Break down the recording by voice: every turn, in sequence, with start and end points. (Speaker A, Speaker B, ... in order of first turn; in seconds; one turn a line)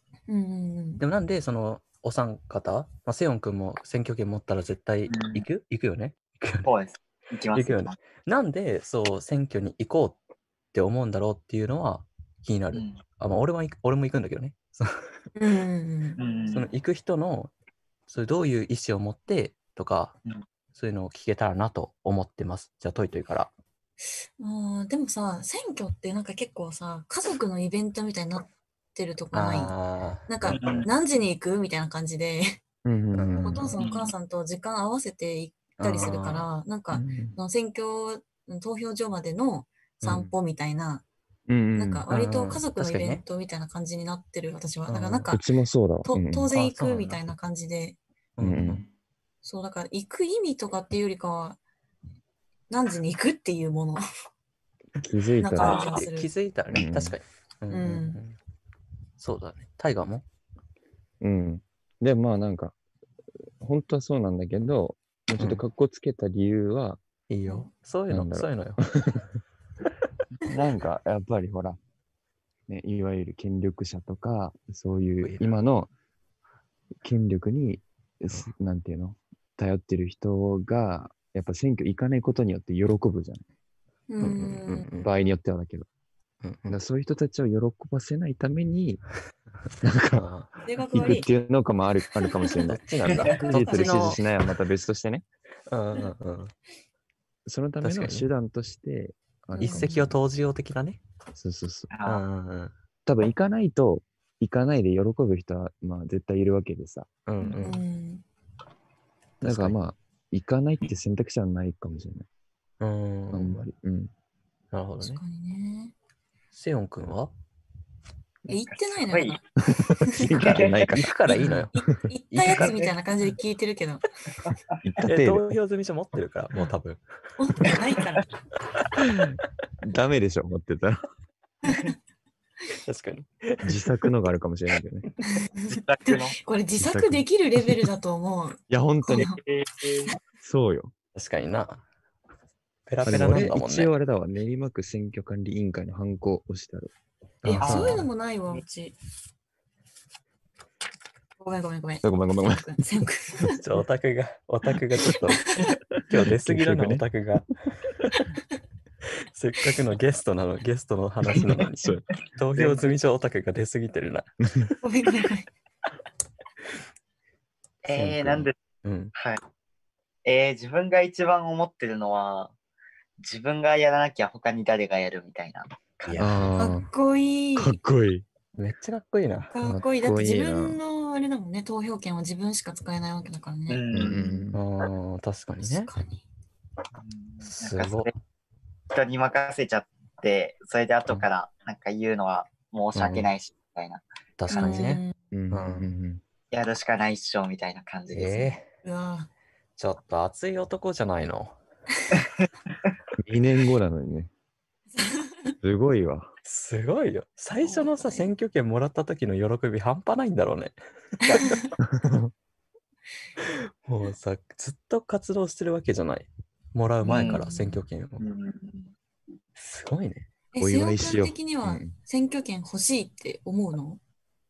Speaker A: 0.3-1.0
Speaker B: 1.0-6.7
Speaker C: 5.1-5.4
Speaker C: 6.7-7.9
Speaker B: 7.5-10.2
Speaker B: 10.7-15.0
Speaker C: 12.7-13.0
Speaker A: 15.4-16.2
Speaker C: 16.2-16.7
Speaker B: 16.5-17.5
Speaker B: 18.1-20.2
Speaker B: 20.8-23.5
Speaker A: 24.4-29.8
Speaker B: 29.3-30.6
Speaker A: 30.3-32.6
Speaker C: 30.4-30.9
Speaker D: 32.9-33.7
Speaker B: 33.1-33.7
Speaker A: 33.4-41.0
Speaker C: 33.8-34.1
Speaker B: 35.8-36.5
Speaker D: 36.9-37.4
Speaker B: 40.0-40.3
Speaker D: 41.5-42.0
Speaker A: 41.8-45.4
Speaker B: 42.1-43.2
Speaker B: 44.9-45.3
Speaker D: 45.3-46.5
Speaker A: 46.0-48.0
Speaker B: 46.5-47.3
Speaker B: 48.4-48.8
Speaker D: 48.4-48.9
Speaker A: 49.4-51.6
Speaker A: 52.7-54.0
Speaker D: 55.0-55.9
Speaker A: 55.4-56.3
Speaker B: 55.6-58.4
Speaker C: 55.6-55.9
Speaker D: 56.7-57.2
Speaker A: 57.7-58.2
Speaker B: 59.2-60.2
Speaker D: 61.2-62.8
Speaker D: 63.6-67.0
Speaker B: 67.3-68.8
Speaker D: 68.1-69.3
Speaker D: 70.5-71.8
Speaker D: 72.7-75.9
Speaker D: 77.0-83.4
Speaker A: 84.1-84.9
Speaker B: 84.2-85.1
Speaker D: 84.9-85.9
Speaker B: 86.4-86.8
Speaker D: 86.7-89.0
Speaker D: 89.8-90.3
Speaker B: 90.1-90.5
Speaker A: 90.6-91.3
Speaker D: 90.9-95.2
Speaker B: 92.6-94.3
Speaker A: 93.1-94.2
Speaker B: 95.7-96.5
Speaker D: 97.5-100.2
Speaker B: 97.8-98.3
Speaker A: 99.5-100.1
Speaker B: 99.6-101.0
Speaker D: 101.4-101.9
Speaker C: 101.9-102.2
Speaker B: 102.1-102.7
Speaker D: 103.1-107.1
Speaker B: 107.3-107.8
Speaker A: 107.4-108.2
Speaker B: 109.4-109.8
Speaker D: 109.4-112.3
Speaker B: 112.8-113.6
Speaker D: 113.3-114.1
Speaker B: 114.7-115.2
Speaker A: 115.0-115.9
Speaker B: 116.5-117.3
Speaker C: 118.5-119.4
Speaker A: 118.5-119.4
Speaker D: 119.7-121.7
Speaker A: 120.0-120.3
Speaker C: 120.4-120.8
Speaker B: 120.9-121.7
Speaker A: 121.3-124.0
Speaker B: 122.3-122.8
Speaker C: 122.6-122.9
Speaker D: 124.8-125.6
Speaker B: 125.1-127.0
Speaker A: 127.4-128.2
Speaker D: 129.0-131.0
Speaker A: 131.6-131.9
Speaker B: 132.8-133.9
Speaker D: 133.6-135.1
Speaker A: 135.2-139.4
Speaker C: 135.7-136.4
Speaker D: 136.8-137.3
Speaker D: 138.7-139.3
Speaker C: 139.2-140.1
Speaker D: 140.4-140.9
Speaker B: 141.2-141.8
Speaker B: 142.9-143.9
Speaker D: 143.1-146.9
Speaker D: 147.4-148.1
Speaker B: 147.4-148.1
Speaker A: 147.5-149.0
Speaker C: 147.6-148.0
Speaker A: 151.4-153.6
Speaker D: 152.0-153.1
Speaker B: 153.6-158.3
Speaker D: 156.3-157.1
Speaker B: 159.3-164.7
Speaker D: 161.6-162.1
Speaker C: 162.6-162.9
Speaker A: 164.8-165.5
Speaker C: 167.8-168.5
Speaker B: 167.9-169.1
Speaker C: 169.2-169.4
Speaker C: 170.2-172.5
Speaker C: 173.2-176.4
Speaker B: 176.0-176.5
Speaker D: 176.2-176.9
Speaker A: 176.6-177.8
Speaker D: 177.6-178.2
Speaker B: 178.6-179.7
Speaker A: 179.5-184.5
Speaker D: 179.6-180.8
Speaker C: 183.7-184.2
Speaker D: 183.9-184.6
Speaker B: 184.5-185.9
Speaker A: 185.6-186.2
Speaker C: 187.0-188.1
Speaker B: 187.4-188.1
Speaker C: 188.9-195.0
Speaker B: 192.9-193.3
Speaker B: 194.4-195.9
Speaker A: 194.5-195.2
Speaker D: 195.3-196.2
Speaker C: 196.5-198.6
Speaker B: 198.1-198.7
Speaker A: 198.8-199.3
Speaker B: 199.8-201.6
Speaker C: 202.1-202.5
Speaker D: 203.2-204.3
Speaker A: 205.0-205.6
Speaker D: 205.6-206.3
Speaker B: 206.4-210.8
Speaker A: 207.6-208.3
Speaker A: 211.3-211.7
Speaker D: 211.8-212.3
Speaker B: 213.4-218.2
Speaker A: 217.0-217.9
Speaker C: 217.1-217.4
Speaker C: 218.2-218.9
Speaker B: 219.6-220.3
Speaker A: 220.5-224.0
Speaker D: 220.6-221.9